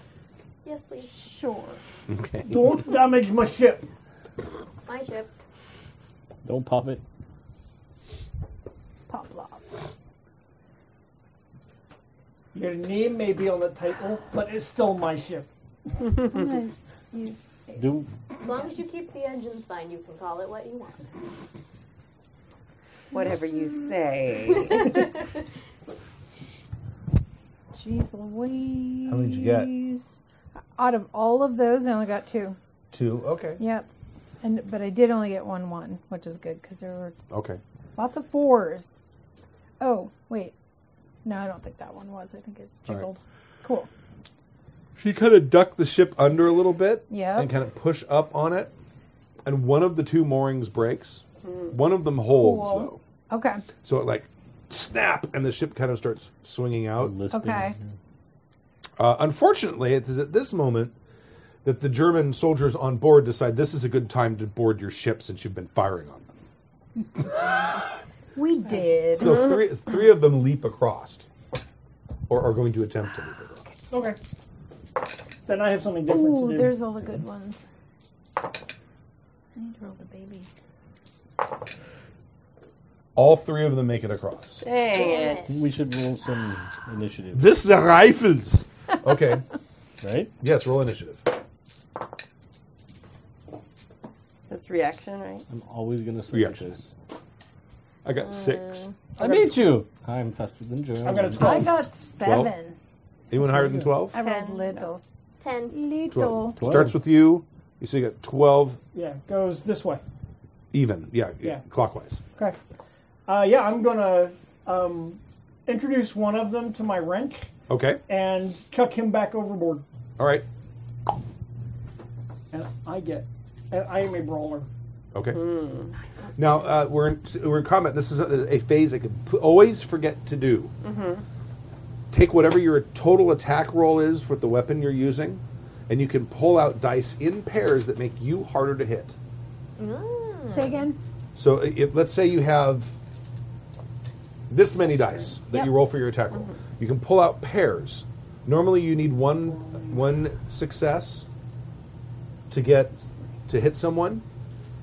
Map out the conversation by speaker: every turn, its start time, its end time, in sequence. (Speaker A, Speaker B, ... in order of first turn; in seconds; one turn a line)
Speaker A: 0.7-1.2
Speaker B: 1.0-1.8
Speaker C: 2.1-2.8
Speaker D: 2.4-3.9
Speaker A: 4.9-5.3
Speaker E: 6.5-7.0
Speaker B: 9.1-9.7
Speaker D: 12.5-15.5
Speaker B: 16.2-18.7
Speaker E: 17.8-18.1
Speaker A: 18.4-21.1
Speaker F: 23.1-25.0
Speaker A: 24.7-25.1
Speaker B: 27.7-30.2
Speaker C: 29.1-29.8
Speaker B: 30.8-32.6
Speaker C: 32.9-33.6
Speaker B: 33.6-33.9
Speaker B: 34.4-37.2
Speaker C: 37.3-37.6
Speaker B: 38.0-39.0
Speaker B: 39.8-40.5
Speaker B: 41.2-43.9
Speaker C: 45.0-48.7
Speaker B: 47.1-47.5
Speaker C: 49.4-53.0
Speaker F: 51.5-51.7
Speaker B: 52.3-53.6
Speaker C: 53.8-57.1
Speaker E: 57.0-57.9
Speaker B: 57.3-57.8
Speaker C: 59.0-61.0
Speaker C: 61.6-66.3
Speaker B: 68.3-69.5
Speaker C: 69.1-71.3
Speaker C: 72.3-73.7
Speaker D: 73.9-74.2
Speaker D: 75.5-76.8
Speaker B: 76.1-77.6
Speaker B: 79.5-80.5
Speaker C: 83.2-84.6
Speaker F: 84.6-85.5
Speaker A: 84.9-85.5
Speaker E: 85.5-87.5
Speaker C: 87.3-89.5
Speaker E: 90.0-90.3
Speaker C: 90.4-91.3
Speaker F: 94.5-95.5
Speaker E: 95.5-96.9
Speaker C: 96.3-96.7
Speaker C: 98.0-98.8
Speaker A: 98.2-98.9
Speaker E: 99.2-101.7
Speaker D: 99.2-99.5
Speaker D: 101.0-101.8
Speaker B: 101.4-102.8
Speaker C: 102.2-102.5
Speaker C: 103.3-104.2
Speaker B: 103.6-105.0
Speaker F: 104.1-104.9
Speaker A: 105.4-105.8
Speaker B: 105.7-106.6
Speaker C: 106.1-108.8
Speaker E: 106.6-107.0
Speaker D: 108.9-110.0
Speaker C: 110.7-112.2
Speaker D: 113.3-117.5
Speaker C: 117.7-118.0
Speaker D: 118.1-119.8
Speaker C: 120.2-120.5
Speaker D: 122.5-124.7
Speaker C: 125.1-125.5
Speaker F: 125.3-126.0
Speaker C: 126.4-130.7
Speaker F: 130.8-131.2
Speaker C: 132.1-139.2
Speaker A: 139.8-140.9
Speaker B: 140.5-141.0
Speaker C: 141.3-143.0
Speaker C: 144.5-151.3
Speaker C: 152.5-154.2